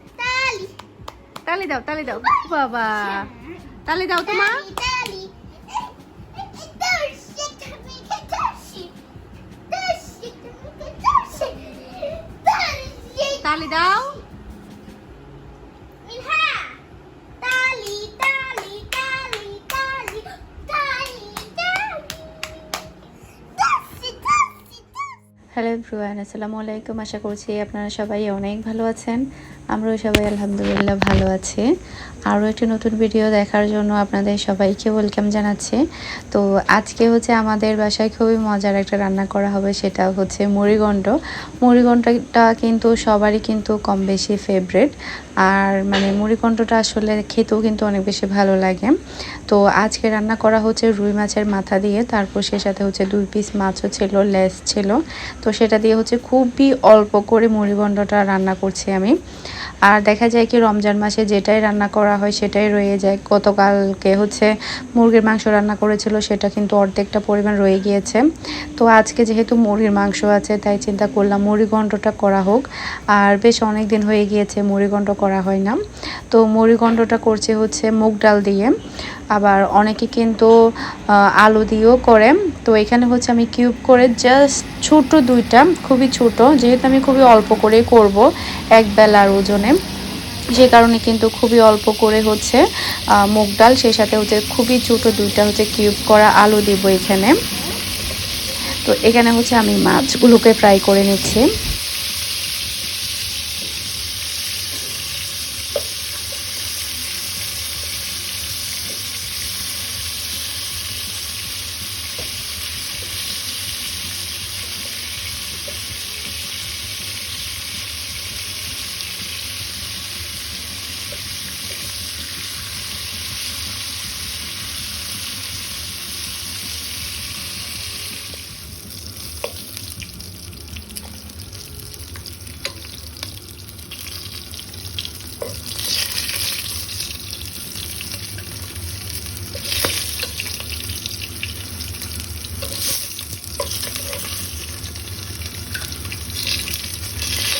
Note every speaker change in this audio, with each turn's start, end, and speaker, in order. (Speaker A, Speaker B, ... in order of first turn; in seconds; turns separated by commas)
Speaker A: 0.2-0.7, Speaker B: 1.4-3.3, Speaker A: 2.0-3.7, Speaker B: 3.9-4.6, Speaker A: 4.2-5.8, Speaker A: 6.3-8.9, Speaker A: 9.7-14.2, Speaker B: 13.4-14.2, Speaker A: 16.0-16.8, Speaker A: 17.4-22.3, Speaker A: 23.6-25.1, Speaker C: 25.6-31.6, Speaker C: 32.3-48.9, Speaker C: 49.5-59.1, Speaker C: 59.9-68.2, Speaker C: 68.8-75.8, Speaker C: 76.3-78.7, Speaker C: 79.3-80.5, Speaker C: 81.4-88.2, Speaker C: 88.8-89.8, Speaker C: 90.5-92.6, Speaker C: 93.3-97.4, Speaker C: 98.8-101.4